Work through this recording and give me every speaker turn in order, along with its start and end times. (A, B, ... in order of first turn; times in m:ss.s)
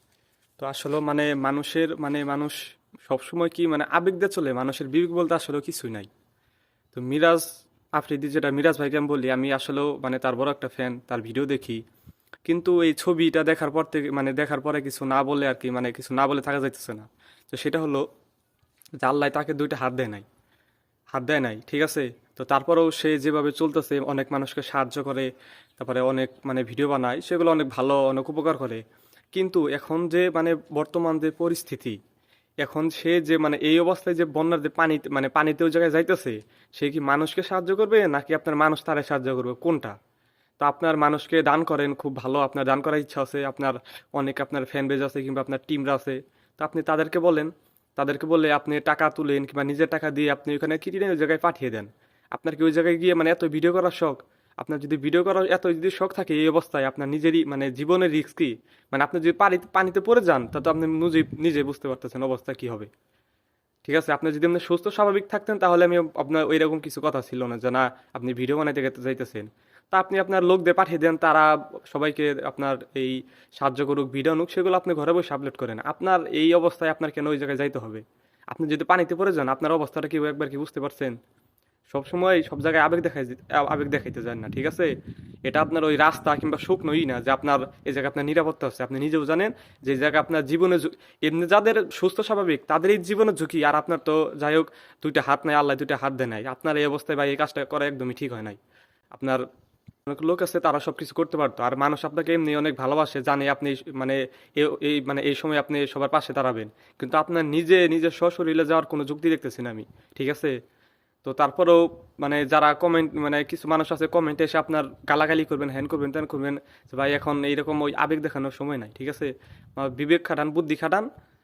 0:00.6-0:06.1 A
0:06.9-0:07.5 A
0:08.0-0:11.8 A
0:12.5-0:18.0 A
0:19.0-0:20.2 A
0:21.1-0:25.3 A
0:25.8-0:28.8 A
0:29.4-0:32.0 A
0:32.6-0:40.0 A
0:40.6-1:02.9 A
1:03.9-1:21.2 A
1:21.9-1:24.9 A
1:25.5-1:38.6 A
1:39.2-1:39.4 A
1:40.1-1:50.5 A
1:51.2-2:01.1 A